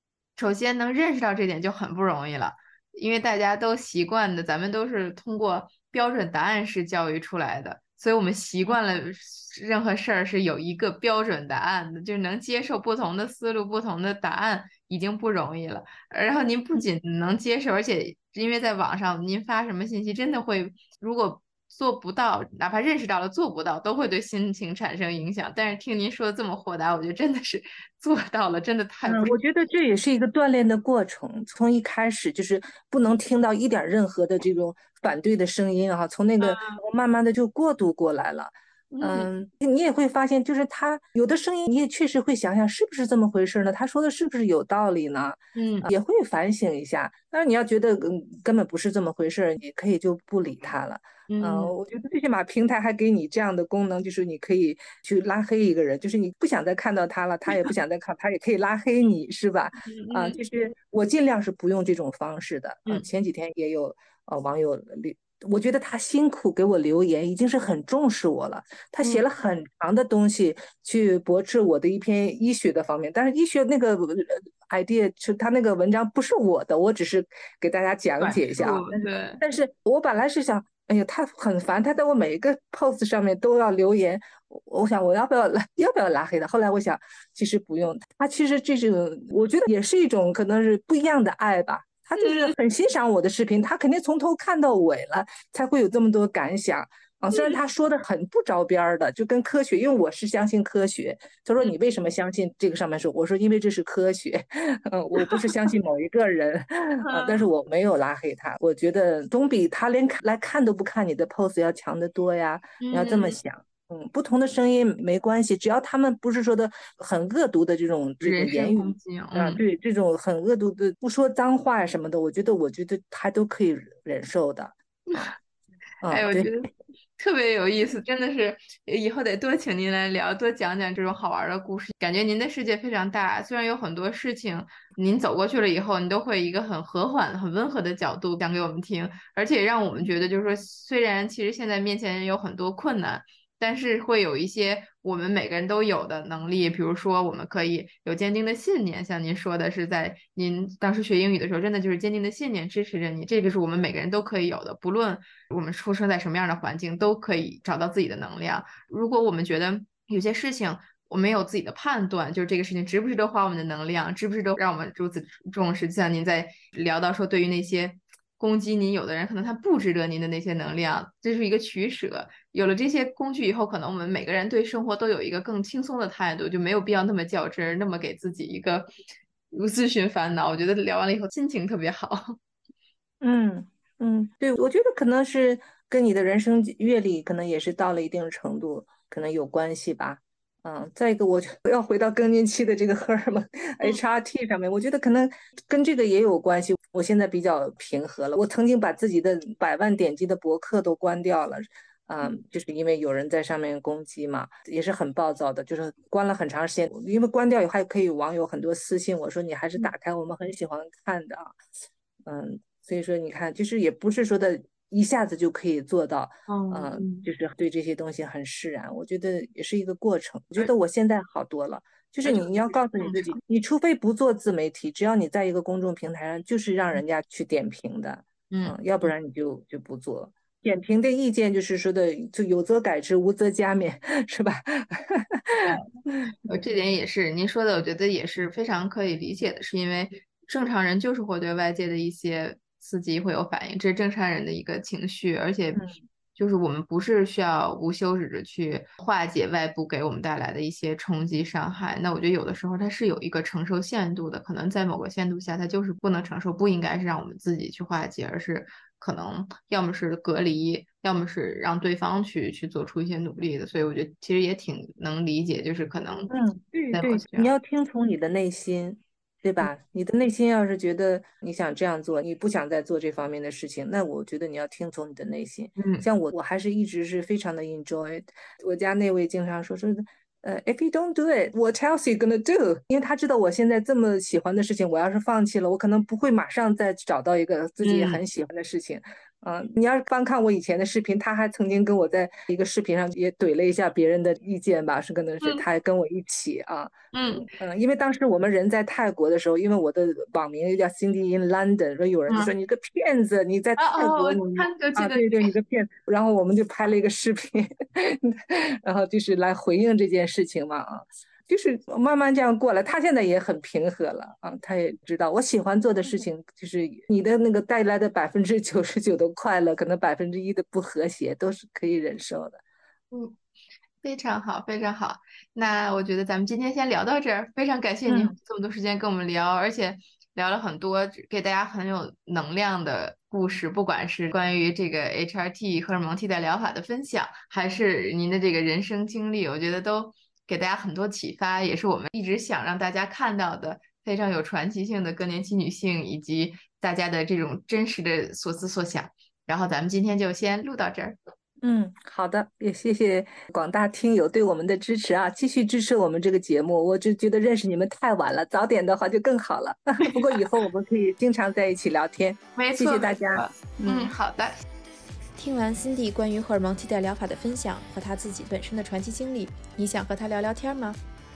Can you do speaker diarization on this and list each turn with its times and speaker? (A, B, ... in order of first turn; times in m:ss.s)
0:00.4-0:29.4 A
0:29.0-2:05.4 B
0:36.4-0:36.8 A
0:38.9-0:39.3 A
0:45.6-0:45.9 A
0:51.3-0:51.7 A
0:59.8-1:00.4 A
1:18.2-1:19.4 A
1:32.2-1:32.5 A
1:37.3-1:37.6 A
1:47.0-1:47.4 A
1:52.8-1:53.4 A
1:58.2-1:59.6 A
2:05.1-2:05.3 A
2:06.0-2:06.5 B
2:06.1-2:58.9 A
2:59.5-3:02.4 A
3:03.2-3:31.6 B
3:32.3-3:56.2 B
3:36.5-3:37.3 A
3:42.2-3:43.4 A
3:48.5-3:49.1 A
3:56.4-4:05.8 A
4:06.4-4:26.3 A
4:26.3-4:56.9 B
4:26.9-4:27.5 A
4:35.8-4:36.0 A
4:47.8-4:48.2 A
4:57.1-4:57.5 A
4:57.5-5:22.6 B
5:03.8-5:05.5 A
5:23.1-5:23.4 A
5:24.0-5:51.2 A
5:28.1-5:28.4 B
5:51.6-6:04.1 B
6:02.6-6:04.6 A
6:05.4-6:11.0 C